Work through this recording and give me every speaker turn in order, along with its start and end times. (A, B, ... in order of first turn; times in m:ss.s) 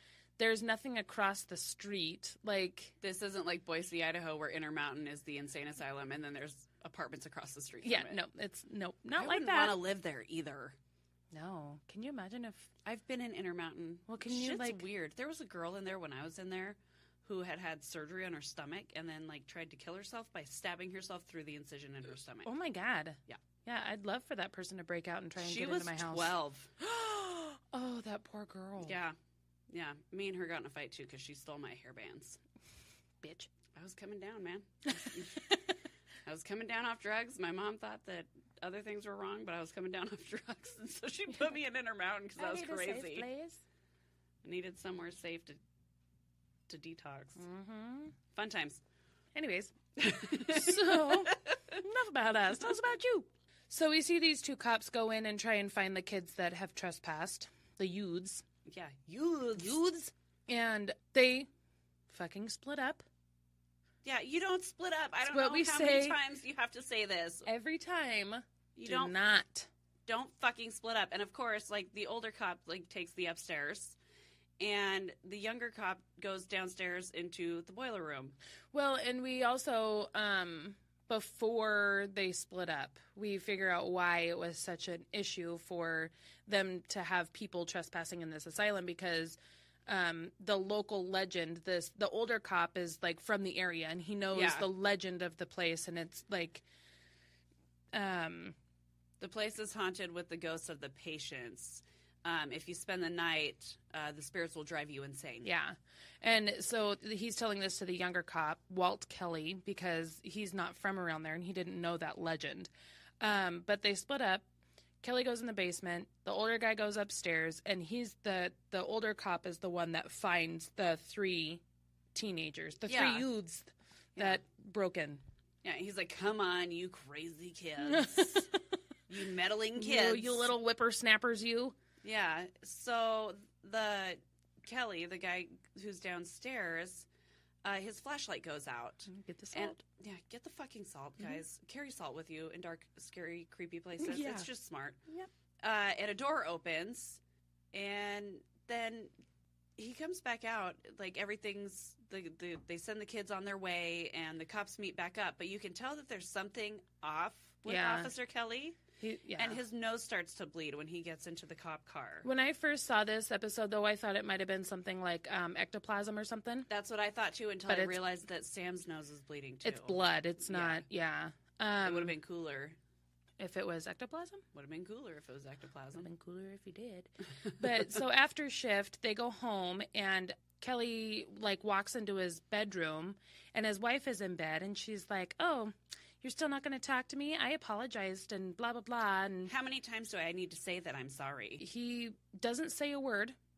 0:00.4-0:03.0 A
0:03.0-0:08.2 B
0:07.8-0:09.8 A
0:09.2-0:10.8 B
0:11.3-0:12.7 A
0:12.8-0:22.5 B
0:14.1-0:14.8 A
0:22.4-0:29.0 A
0:25.4-0:26.7 B
0:28.8-0:29.2 B
0:29.7-0:32.4 B
0:33.2-0:33.5 A
0:33.7-0:35.5 B
0:36.3-0:43.3 B
0:42.4-0:43.6 A
0:44.4-0:45.6 B
0:46.7-0:47.4 B
0:47.4-0:48.1 A
0:48.3-0:48.8 B
0:49.4-0:58.4 A
0:50.0-0:51.8 B
0:58.6-0:59.8 B
0:59.6-1:01.5 A
1:02.1-1:03.0 A
1:04.0-1:07.5 B
1:05.3-1:06.2 A
1:07.5-1:09.7 A
1:08.8-1:09.1 B
1:10.1-1:14.0 B
1:14.6-1:18.4 B
1:18.7-1:36.6 A
1:34.3-1:34.7 B
1:37.9-1:38.6 A
1:39.2-1:45.5 B
1:45.4-1:54.4 A
1:55.0-2:01.6 A
2:02.1-2:05.2 A
2:02.9-2:03.3 B
2:05.6-2:08.5 B
2:07.8-2:08.6 A
2:09.1-2:10.5 B
2:09.8-2:11.8 A
2:12.0-2:17.1 B
2:17.6-2:25.0 B
2:19.1-2:19.8 A
2:24.0-2:24.5 A
2:25.6-2:27.2 B
2:27.7-2:29.1 B
2:29.8-2:38.8 B
2:37.7-2:38.1 A
2:39.0-2:39.6 A
2:39.4-2:42.3 B
2:42.2-2:46.7 A
2:46.7-2:50.9 B
2:47.7-2:48.0 A
2:49.6-2:52.2 A
2:51.8-2:52.8 B
2:53.4-2:54.4 A
2:54.5-2:56.1 B
2:56.0-3:09.5 A
3:09.5-3:11.6 B
3:11.6-3:13.4 A